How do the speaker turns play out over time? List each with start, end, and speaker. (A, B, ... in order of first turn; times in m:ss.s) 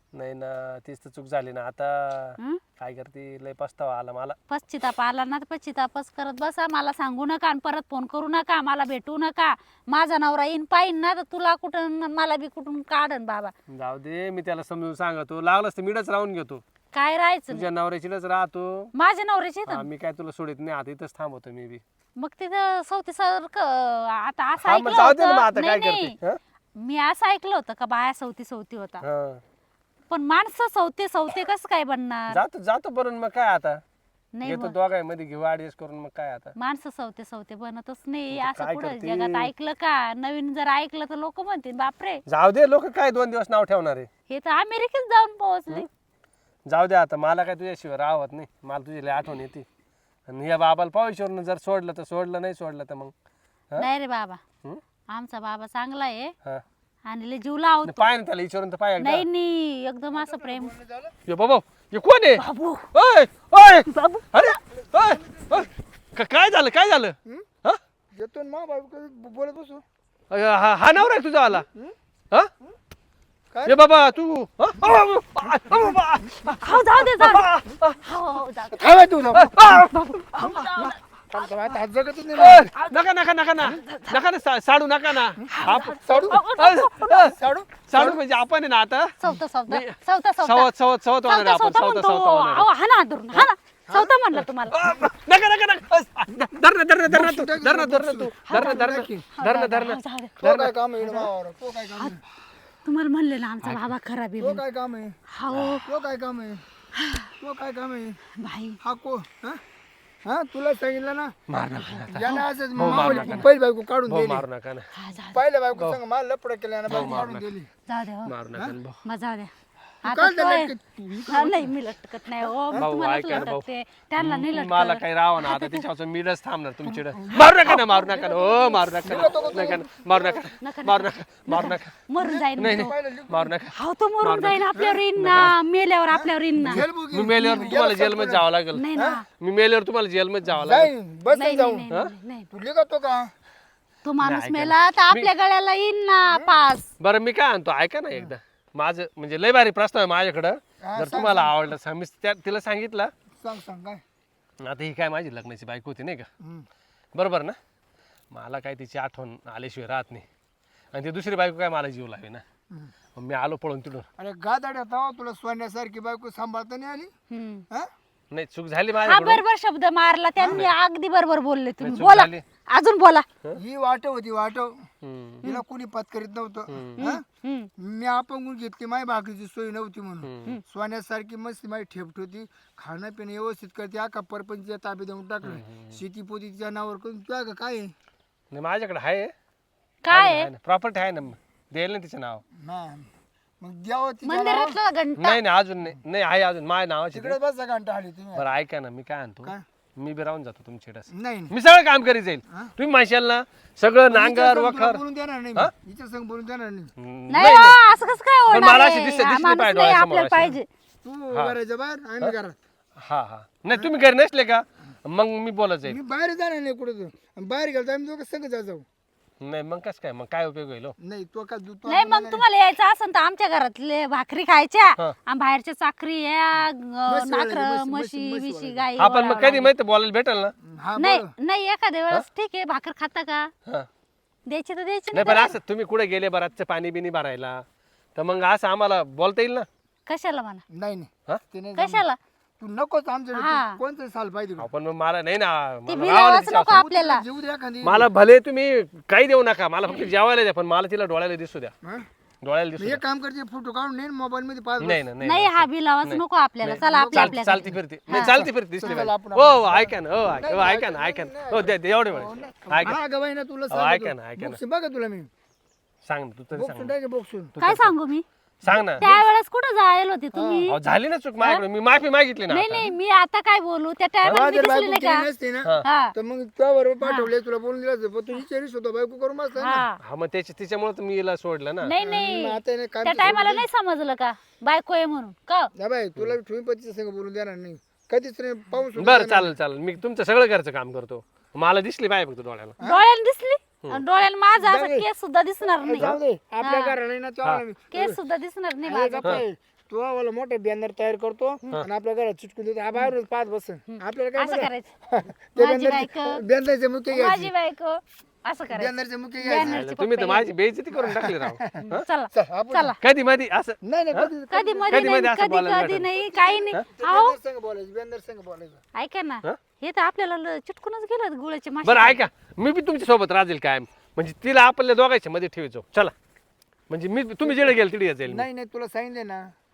0:00.1-0:04.4 A
0:04.5-0:13.5 B
0:13.7-0:16.6 A
0:16.9-0:17.7 B
0:17.5-0:18.9 A
0:18.9-0:19.9 B
0:19.7-0:21.8 A
0:22.2-0:26.2 B
0:24.6-0:26.4 A
0:26.8-0:29.0 B
0:29.0-0:29.4 A
0:30.1-0:32.4 B
0:32.3-0:33.8 A
0:34.3-0:34.7 B
0:34.4-0:36.5 A
0:36.6-0:42.2 B
0:38.3-0:39.5 A
0:42.2-0:44.1 A
0:44.3-0:45.9 B
0:46.7-0:49.6 A
0:50.3-0:53.1 A
0:53.8-0:54.4 B
0:55.1-0:56.3 B
0:57.0-0:58.1 B
0:57.8-0:59.2 A
0:59.0-1:00.7 B
1:00.1-1:01.1 C
1:01.3-1:07.8 A
1:02.4-1:02.9 B
1:03.9-1:04.5 B
1:04.9-1:05.7 C
1:08.1-1:09.8 C
1:10.3-1:11.6 A
1:13.5-1:13.8 C
1:13.6-1:18.0 A
1:15.5-1:15.9 C
1:16.6-1:17.5 B
1:18.0-1:21.0 B
1:18.7-1:19.6 C
1:19.3-1:20.9 A
1:21.3-1:22.7 C
1:22.3-1:32.7 A
1:22.7-1:23.0 B
1:23.6-1:24.2 B
1:25.5-1:27.2 B
1:26.0-1:26.4 C
1:27.1-1:28.2 C
1:29.2-1:30.7 B
1:31.2-1:34.8 B
1:33.9-1:34.1 C
1:34.6-1:41.3 A
1:37.0-1:39.3 C
1:38.5-1:40.4 B
1:40.4-1:42.2 C
1:42.8-1:44.6 B
1:43.6-1:43.9 A
1:44.4-1:45.2 C
1:45.3-1:45.9 B
1:45.5-1:45.8 A
1:45.8-1:46.6 C
1:47.0-1:47.3 B
1:47.4-1:48.2 C
1:48.4-1:48.8 B
1:48.8-1:49.6 C
1:50.2-1:51.3 C
1:51.5-1:53.5 A
1:52.1-1:54.4 C
1:52.3-1:53.4 B
1:54.1-1:54.9 A
1:54.9-1:55.4 B
1:55.3-1:57.7 C
1:56.9-1:57.5 A
1:57.9-1:58.3 B
1:58.2-1:59.0 A
1:59.0-1:59.5 B
2:00.0-2:01.7 C
2:00.0-2:00.7 B
2:01.3-2:05.8 B
2:02.7-2:03.5 C
2:02.8-2:03.6 A
2:04.2-2:12.0 A
2:06.8-2:10.4 C
2:10.6-2:12.9 B
2:12.2-2:13.6 C
2:12.6-2:15.6 A
2:13.7-2:16.8 B
2:14.7-2:15.0 C
2:16.1-2:18.4 C
2:16.6-2:18.8 A
2:17.4-2:17.7 B
2:18.7-2:19.2 B
2:19.4-2:20.9 A
2:20.5-2:21.8 C
2:21.3-2:22.5 B
2:22.5-2:23.3 C
2:24.0-2:26.9 B
2:24.2-2:25.3 A
2:27.0-2:33.1 A
2:30.8-2:31.6 C
2:33.4-2:34.0 C
2:34.6-2:36.3 A
2:36.4-2:36.6 C
2:37.1-2:37.6 A
2:38.3-2:40.2 A
2:40.9-2:42.4 A
2:43.2-2:44.1 A
2:44.2-2:47.1 C
2:47.3-2:47.6 B
2:48.3-2:49.4 A
2:49.0-2:53.2 B
2:50.4-2:50.6 C
2:51.8-2:52.4 A
2:53.6-2:54.9 C
2:55.0-2:55.5 A
2:55.4-2:57.2 C
2:56.7-2:57.1 A
2:57.0-2:57.7 B
2:57.8-3:07.9 C
3:00.2-3:00.5 A
3:05.4-3:06.0 A
3:08.5-3:09.3 A
3:10.0-3:10.5 B
3:10.1-3:12.4 A
3:12.5-3:13.1 C
3:13.6-3:14.8 C
3:14.2-3:15.4 B
3:15.2-3:17.4 A
3:17.1-3:18.5 C
3:18.3-3:25.0 A
3:21.1-3:21.5 C
3:24.1-3:26.9 C
3:27.0-3:27.8 A
3:27.3-3:30.6 B
3:28.5-3:30.6 A
3:31.0-3:32.6 C
3:33.0-3:36.0 A
3:35.8-3:38.8 C
3:39.4-3:41.0 A
3:41.0-3:42.4 C
3:41.8-3:49.7 B
3:47.1-3:48.8 C
3:49.0-3:50.5 A
3:50.6-3:51.3 C
3:51.0-3:53.5 B
3:54.5-3:55.6 B
3:55.1-3:57.6 A
3:58.2-3:59.7 A
4:00.0-4:00.6 B
4:00.7-4:02.0 C
4:01.8-4:02.2 B
4:02.6-4:04.7 C
4:03.3-4:03.8 B
4:04.6-4:06.8 A
4:05.9-4:07.2 B
4:06.5-4:08.1 C
4:07.8-4:11.7 A
4:12.4-4:13.0 A
4:12.8-4:15.0 C
4:14.8-4:23.0 A
4:15.2-4:18.3 B
4:16.6-4:25.3 C
4:23.7-4:24.6 A
4:26.0-4:26.9 A
4:26.5-4:27.5 C
4:27.5-4:27.9 A
4:27.6-4:28.2 B
4:28.6-4:29.0 A
4:28.6-4:29.3 C
4:29.0-4:30.8 B
4:30.3-4:30.7 C
4:30.7-4:32.9 A
4:31.4-4:31.6 B
4:32.5-4:35.3 B
4:34.3-4:39.8 C
4:35.8-4:36.1 B
4:37.0-4:37.3 B
4:39.6-4:40.0 B
4:40.0-4:41.9 A
4:41.8-4:45.7 B
4:42.0-4:43.6 C
4:45.7-4:49.5 C
4:49.0-4:52.8 A
4:52.8-4:57.0 B
4:54.6-4:55.0 C
4:55.8-4:58.2 C
4:57.9-4:59.4 B
4:58.8-5:07.5 C
5:03.9-5:04.9 B
5:05.6-5:06.4 B
5:07.1-5:10.5 B
5:08.7-5:09.8 C
5:09.5-5:12.0 A
5:10.9-5:12.9 C
5:11.9-5:13.0 B
5:13.0-5:14.3 A
5:13.8-5:15.2 C
5:14.5-5:17.4 B
5:14.9-5:16.1 A
5:16.1-5:18.8 C
5:18.9-5:22.2 B
5:21.8-5:26.1 A
5:26.9-5:28.5 A
5:27.4-5:27.7 C
5:28.3-5:29.5 C